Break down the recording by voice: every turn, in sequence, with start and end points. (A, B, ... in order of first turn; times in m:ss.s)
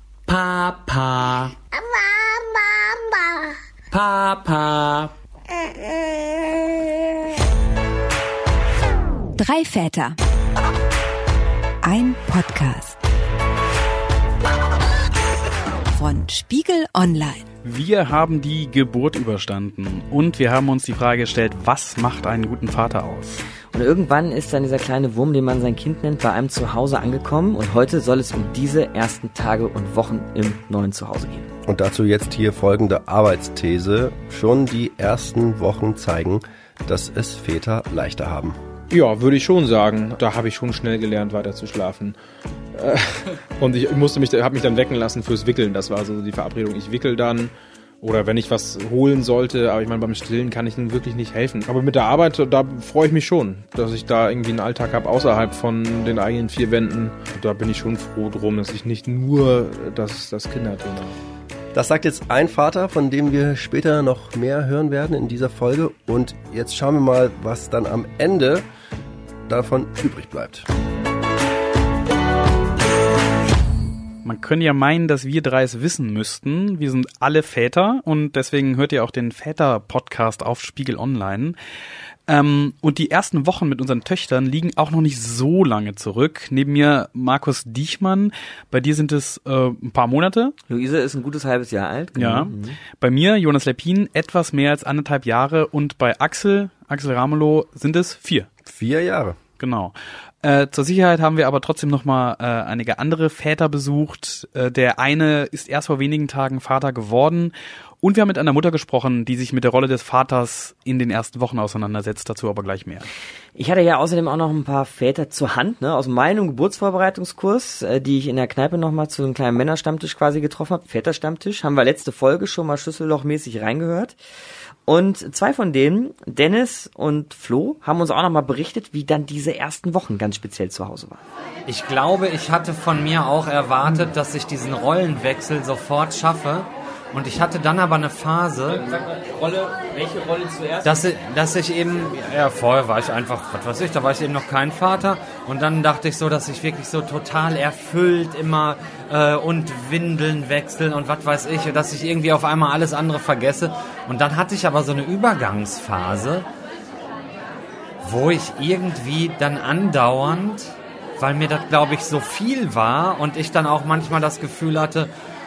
0:00.3-0:01.5 A
0:03.9-0:05.1 A
0:09.4-0:10.2 B
0:11.8-0:13.0 B
0:15.9-0:17.4 B
0:17.6-0:23.4 C
0:23.7-0:31.5 D
0:31.6-0:38.6 E
0:38.9-0:42.2 F
0:42.7-1:01.1 F
1:01.7-1:08.6 E
1:09.5-1:10.6 E
1:14.2-1:21.6 C
1:22.3-1:30.5 C
1:30.7-1:32.8 D
1:32.2-1:38.5 C
1:38.7-1:39.4 E
1:39.6-1:53.1 C
1:53.6-2:04.2 D
2:04.8-2:11.2 D
2:11.6-2:19.0 A
2:18.9-2:20.9 D
2:20.8-2:36.5 A
2:38.0-2:45.1 A